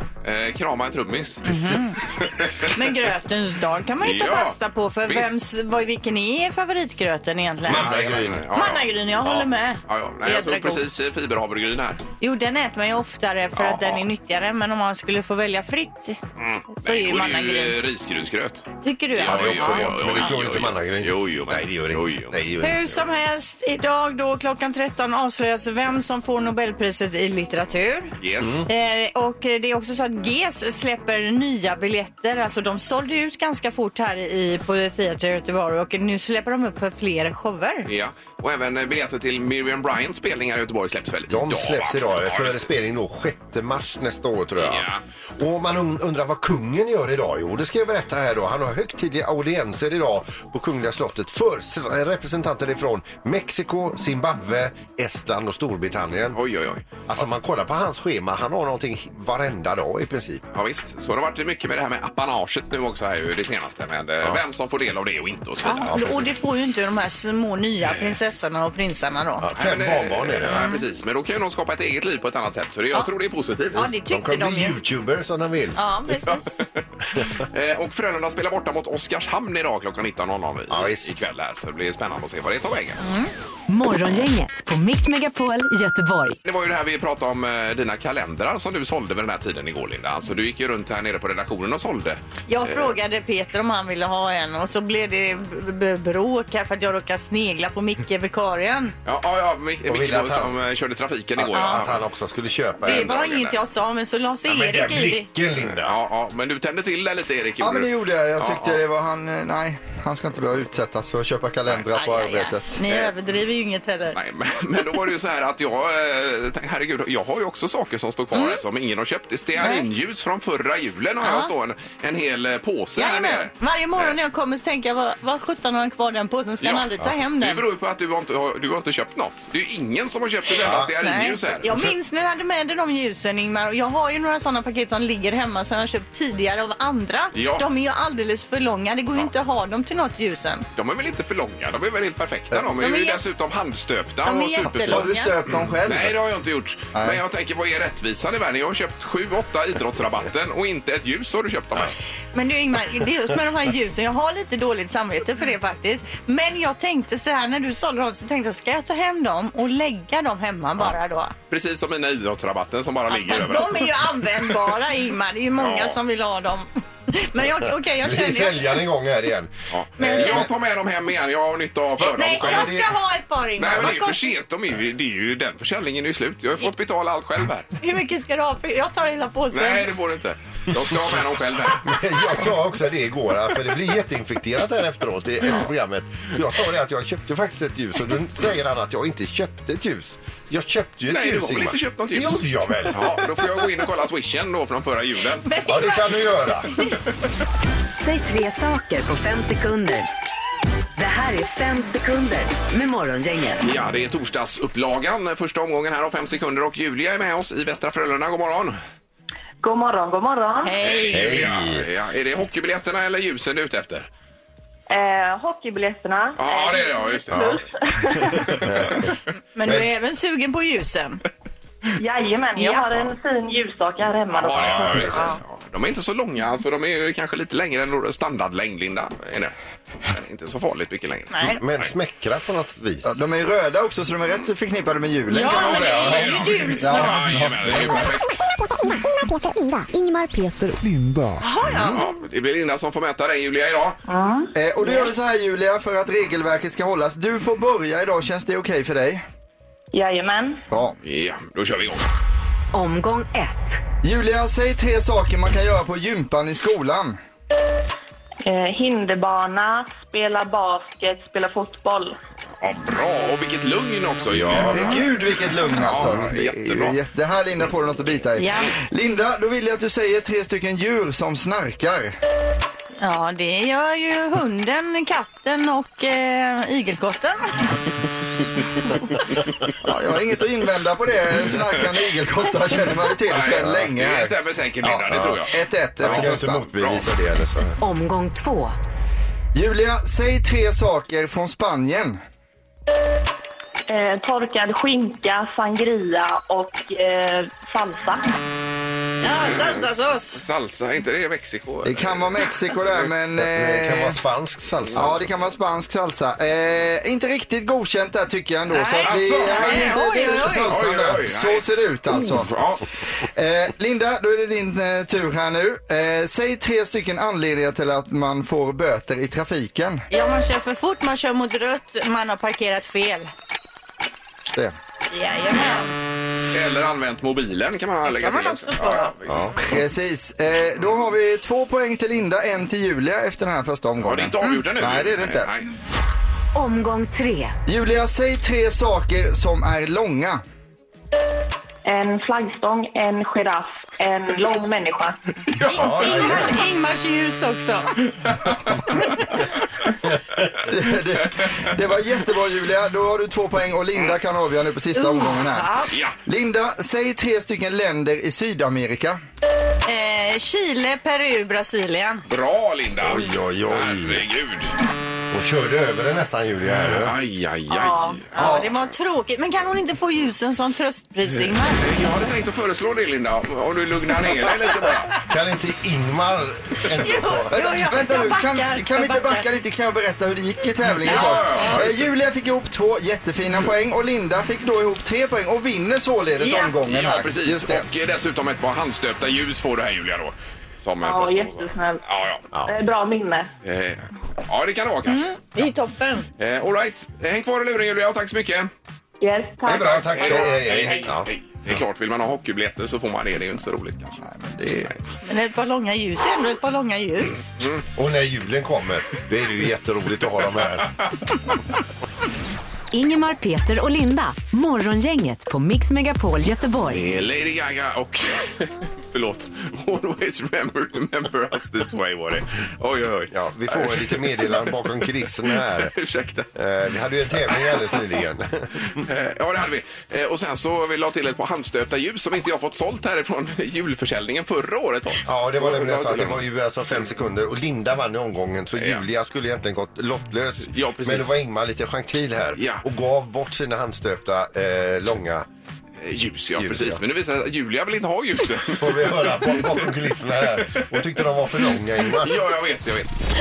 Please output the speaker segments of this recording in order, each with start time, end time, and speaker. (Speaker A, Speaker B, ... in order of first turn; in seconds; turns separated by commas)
Speaker A: 0.2-2.7, Speaker B: 1.4-2.0, Speaker B: 2.7-7.9, Speaker A: 4.0-5.3, Speaker C: 7.6-8.4, Speaker A: 7.7-8.9, Speaker B: 8.5-10.8, Speaker A: 9.8-12.0, Speaker B: 12.2-16.2, Speaker A: 13.6-14.0, Speaker A: 16.4-22.4, Speaker B: 16.7-17.8, Speaker B: 18.8-20.2, Speaker C: 19.2-22.9, Speaker B: 22.6-28.1, Speaker A: 28.2-28.6, Speaker B: 28.6-37.9, Speaker A: 37.9-42.7, Speaker C: 41.3-56.4, Speaker A: 44.6-45.0, Speaker A: 56.3-57.3, Speaker C: 57.0-60.4, Speaker A: 60.5-66.0, Speaker B: 65.6-69.5, Speaker C: 65.7-66.3, Speaker C: 69.4-70.7, Speaker A: 69.5-73.9, Speaker B: 70.5-70.8, Speaker B: 73.7-74.8, Speaker C: 73.8-75.8, Speaker B: 75.8-76.5, Speaker A: 76.3-76.6, Speaker A: 77.2-83.0, Speaker C: 80.7-81.2, Speaker B: 83.0-83.3, Speaker D: 83.7-86.4, Speaker A: 86.4-92.9, Speaker B: 92.5-98.9, Speaker A: 99.0-102.0, Speaker C: 99.8-100.6, Speaker C: 101.4-103.1, Speaker B: 101.5-101.8, Speaker B: 102.8-105.3, Speaker A: 102.8-103.5, Speaker C: 104.5-105.9, Speaker A: 105.8-108.8, Speaker E: 107.6-113.0, Speaker B: 111.9-114.2, Speaker A: 114.1-124.1, Speaker B: 118.3-118.6, Speaker B: 119.6-119.8, Speaker B: 121.2-121.5, Speaker B: 123.0-127.6, Speaker A: 126.6-131.7, Speaker C: 130.6-130.9, Speaker B: 131.0-140.7, Speaker C: 131.6-131.9, Speaker A: 137.3-137.7, Speaker A: 140.7-151.9, Speaker B: 142.8-143.2, Speaker B: 144.2-145.4, Speaker E: 144.6-146.2, Speaker E: 146.9-147.2, Speaker B: 152.3-161.3, Speaker A: 161.5-164.0, Speaker B: 163.1-168.8, Speaker A: 165.6-166.0, Speaker C: 168.0-170.5, Speaker A: 169.7-172.8, Speaker B: 170.0-170.5, Speaker B: 172.0-174.3, Speaker C: 172.3-172.9, Speaker A: 173.6-177.7, Speaker B: 177.8-179.9, Speaker A: 179.5-182.5, Speaker C: 181.8-193.2, Speaker A: 191.1-195.5, Speaker B: 195.4-196.0, Speaker C: 195.7-196.8, Speaker D: 198.0-200.1, Speaker D: 201.0-203.7, Speaker A: 203.6-208.8, Speaker F: 209.6-210.7, Speaker B: 210.6-211.4, Speaker A: 210.8-214.1, Speaker C: 211.1-211.8, Speaker F: 214.9-218.7, Speaker A: 216.3-217.4, Speaker C: 217.3-217.6, Speaker C: 218.5-219.1, Speaker A: 218.6-219.0, Speaker B: 219.6-221.2, Speaker F: 222.0-225.3, Speaker B: 222.6-222.8, Speaker A: 224.3-231.6, Speaker C: 224.5-225.3, Speaker B: 231.3-231.6, Speaker C: 231.5-233.1, Speaker E: 233.0-238.1, Speaker B: 235.3-237.4, Speaker A: 235.3-238.5, Speaker G: 238.5-240.9, Speaker E: 241.0-241.3, Speaker B: 241.4-242.0, Speaker A: 241.7-244.0, Speaker F: 244.1-244.5, Speaker E: 244.5-249.2, Speaker F: 249.9-250.6, Speaker E: 250.7-251.0, Speaker A: 251.0-252.0, Speaker D: 252.7-253.8, Speaker E: 254.0-257.2, Speaker F: 258.4-262.2, Speaker A: 262.6-265.1, Speaker C: 264.3-265.1, Speaker E: 264.5-272.1, Speaker A: 265.7-267.0, Speaker C: 265.8-266.3, Speaker B: 268.4-268.7, Speaker B: 273.0-277.8, Speaker E: 279.8-284.3, Speaker A: 283.3-287.1, Speaker C: 283.4-283.9, Speaker C: 284.9-285.4, Speaker E: 285.5-286.5, Speaker C: 286.0-287.8, Speaker D: 287.8-288.8, Speaker E: 289.5-292.2, Speaker F: 293.9-298.4, Speaker B: 299.2-300.4, Speaker A: 299.2-302.8, Speaker E: 301.8-304.2, Speaker C: 303.4-305.3, Speaker E: 304.9-312.5, Speaker B: 308.7-310.8, Speaker A: 309.0-309.9, Speaker A: 310.7-312.8, Speaker E: 313.2-320.0, Speaker B: 320.1-323.3, Speaker B: 325.1-325.9, Speaker A: 326.5-329.6, Speaker B: 328.1-329.1, Speaker E: 329.5-335.5, Speaker A: 334.0-335.7, Speaker D: 336.5-337.6, Speaker E: 337.7-340.4, Speaker F: 341.9-345.2, Speaker C: 345.6-346.6, Speaker B: 345.6-348.1, Speaker E: 350.6-359.2, Speaker B: 354.9-355.9, Speaker B: 359.9-362.2, Speaker A: 362.3-364.7, Speaker C: 363.0-364.2, Speaker C: 365.3-367.1, Speaker A: 366.7-368.3, Speaker B: 367.7-371.8, Speaker E: 368.4-368.7, Speaker A: 371.7-375.1, Speaker C: 375.3-377.5, Speaker B: 377.0-379.4, Speaker E: 377.5-387.9, Speaker A: 381.0-382.0, Speaker B: 381.1-381.8, Speaker B: 386.4-386.7, Speaker A: 386.9-392.5, Speaker F: 391.0-392.0, Speaker F: 392.6-393.5, Speaker A: 393.6-395.4, Speaker B: 395.1-396.3, Speaker A: 396.4-398.7, Speaker F: 399.2-400.9, Speaker C: 399.6-401.3, Speaker A: 399.8-404.2, Speaker E: 404.2-404.9, Speaker B: 405.2-407.5, Speaker C: 407.9-411.0, Speaker D: 412.9-417.0, Speaker A: 416.9-426.5, Speaker C: 423.3-425.9, Speaker C: 426.5-429.0, Speaker A: 427.5-427.9, Speaker A: 429.0-436.4, Speaker C: 435.2-445.4, Speaker A: 438.7-439.0, Speaker A: 440.7-441.4, Speaker A: 442.6-442.8, Speaker A: 446.0-449.6, Speaker C: 446.6-447.0, Speaker C: 448.8-452.4, Speaker A: 452.1-453.1